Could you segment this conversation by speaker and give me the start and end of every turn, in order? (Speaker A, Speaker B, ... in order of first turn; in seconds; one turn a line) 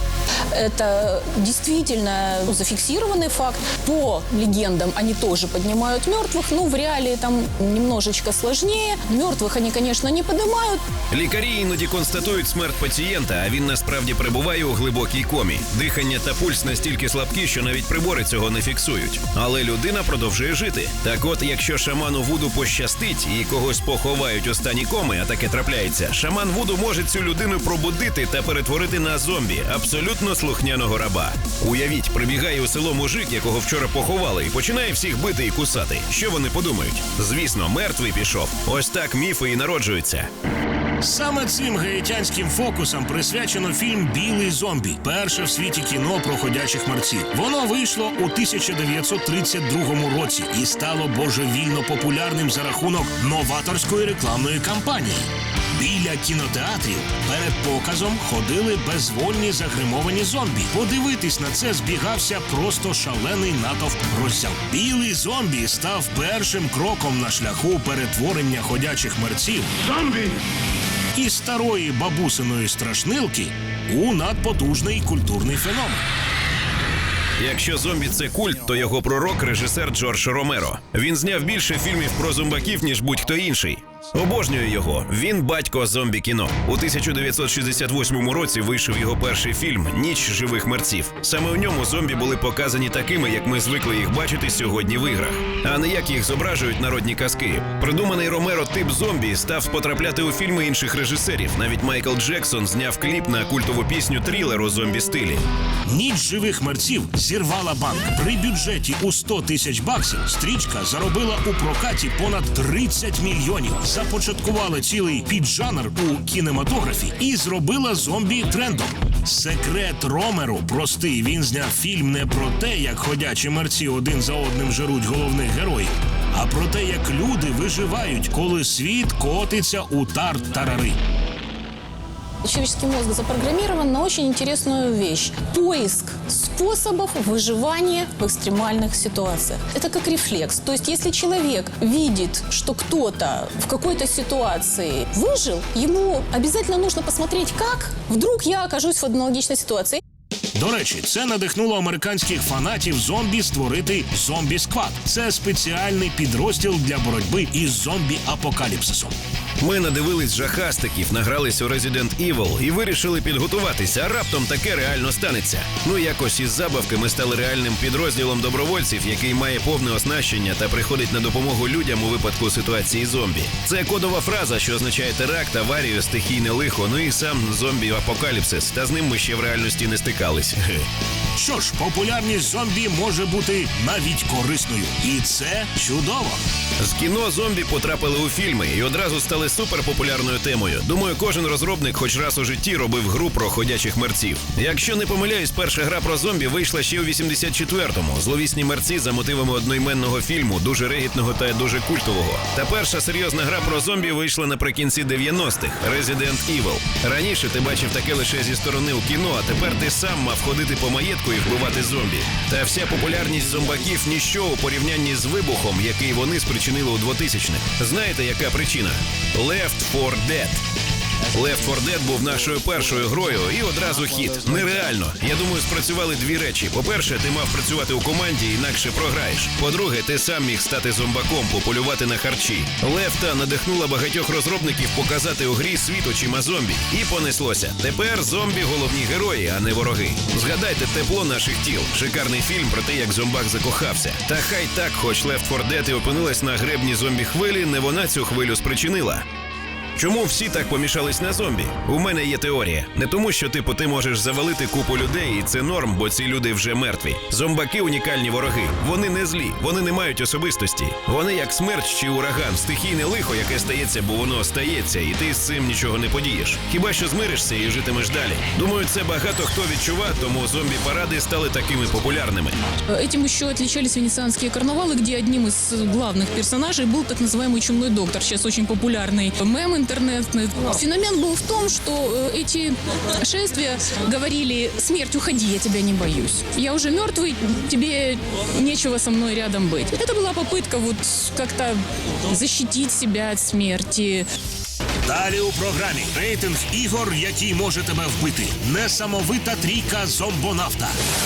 Speaker A: 0.5-10.8
Speaker B: 11.1-40.3
Speaker C: 41.0-70.3
Speaker C: 71.2-76.0
Speaker B: 77.4-105.4
Speaker C: 105.9-131.0
Speaker A: 132.4-150.0
Speaker C: 150.6-159.1
Speaker B: 159.6-180.9
Speaker C: 181.3-186.4
Speaker B: 186.8-220.6
Speaker B: 221.3-249.2
Speaker B: 250.0-272.6
Speaker A: 272.9-294.3
Speaker C: 295.0-301.0